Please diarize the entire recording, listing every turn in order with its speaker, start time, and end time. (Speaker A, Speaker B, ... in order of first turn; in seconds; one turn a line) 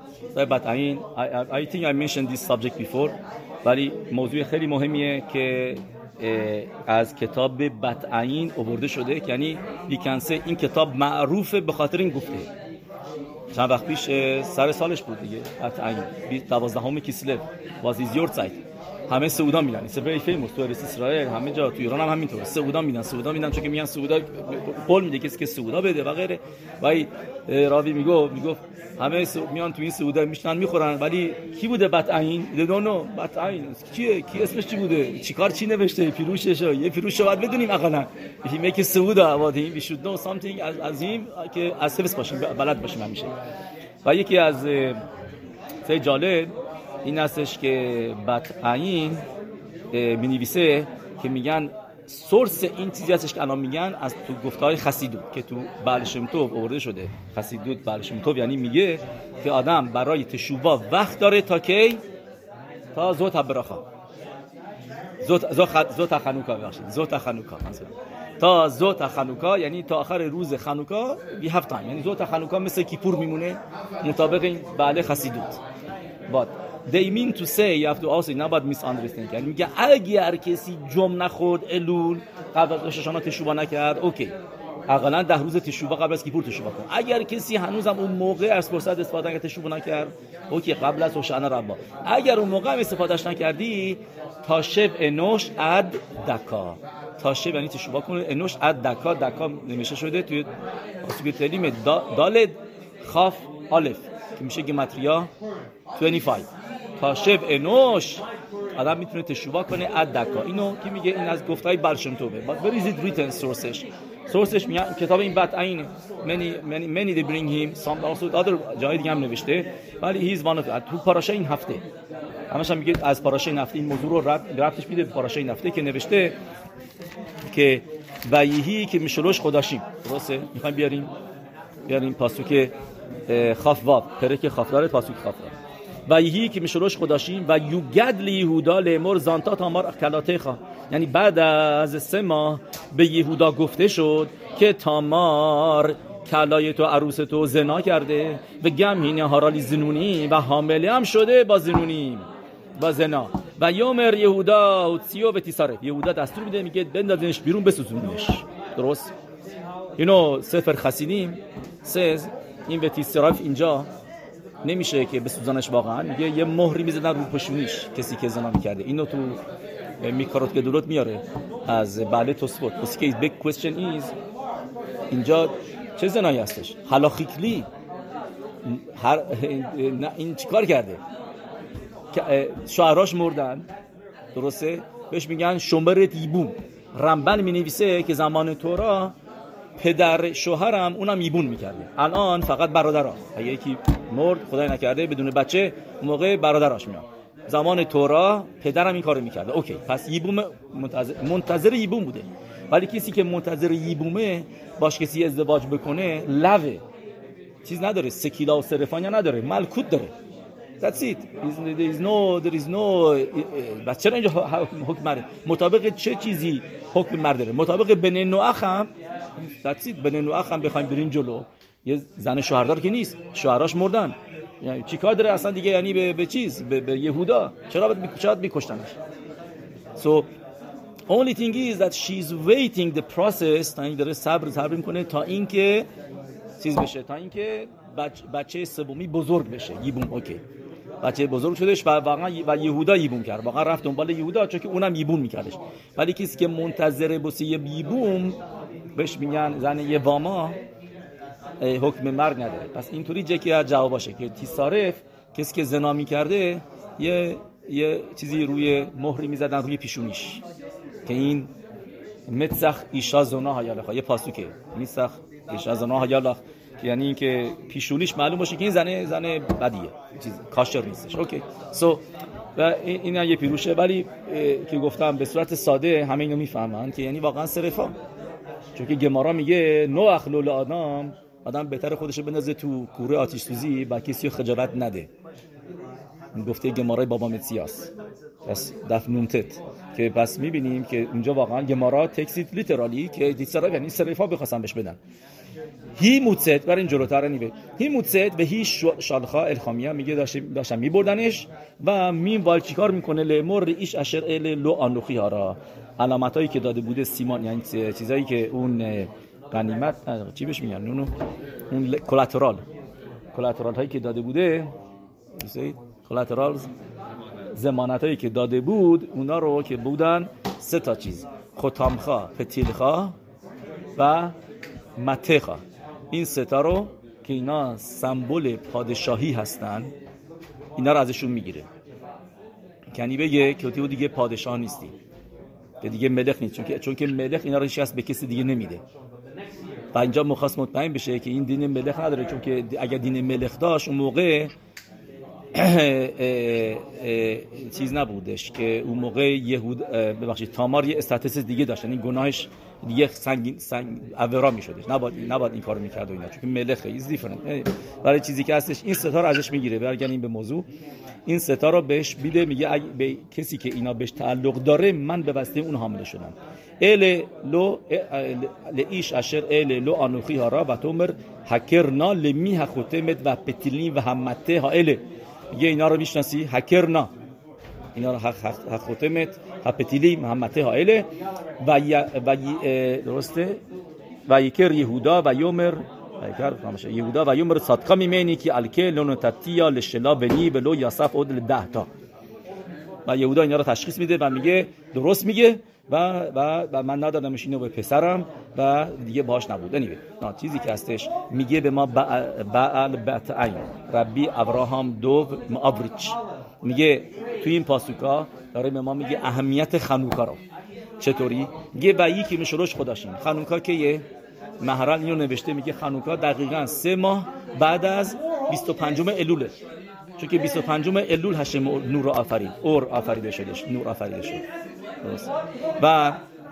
Speaker A: 0.3-12.5
Speaker A: 13.5-43.3
Speaker A: 44.0-45.0
Speaker A: 45.8-46.5
Speaker A: 47.0-49.2
Speaker A: 49.9-62.0
Speaker A: 62.9-63.8
Speaker A: 65.2-75.6
Speaker A: 76.3-84.3
Speaker A: 84.9-100.5
Speaker A: 101.0-105.3
Speaker A: 106.0-108.2
Speaker A: 108.8-121.8
Speaker A: 122.5-126.4
Speaker A: 127.5-131.1
Speaker A: 131.9-132.7
Speaker A: 133.3-135.5
Speaker A: 136.1-152.3
Speaker A: 152.8-159.1
Speaker A: 160.0-163.9
Speaker A: 164.6-169.4
Speaker A: 170.0-174.1
Speaker A: 175.1-177.7
Speaker A: 178.6-181.0
Speaker A: 182.1-183.7
Speaker A: 184.3-189.1
Speaker A: 189.8-206.8
Speaker A: 207.6-210.1
Speaker A: 210.8-218.9
Speaker A: 219.6-229.0
Speaker A: 229.9-230.3
Speaker A: 231.1-235.9
Speaker A: 236.6-240.4
Speaker A: 241.0-248.4
Speaker A: 248.9-250.6
Speaker A: 251.6-260.4
Speaker A: 261.1-261.5
Speaker A: 262.3-272.0
Speaker A: 272.6-277.9
Speaker A: 278.7-285.1
Speaker A: 286.3-287.9
Speaker A: 288.4-295.0
Speaker A: 296.0-311.1
Speaker A: 311.7-312.6
Speaker A: 313.3-314.7
Speaker A: 315.4-316.7
Speaker A: 317.5-323.1
Speaker A: 323.9-324.3
Speaker A: 324.9-329.9
Speaker A: 330.8-331.7
Speaker A: 332.9-334.9
Speaker A: 335.8-338.8
Speaker A: 339.9-344.5
Speaker A: 345.5-360.7
Speaker A: 361.2-375.0
Speaker A: 375.5-377.1
Speaker A: 377.9-381.1
Speaker A: 381.6-383.6
Speaker A: 384.3-391.9
Speaker A: 393.1-410.4
Speaker A: 411.0-414.1
Speaker A: 414.6-419.5
Speaker A: 420.2-424.4
Speaker A: 425.0-426.2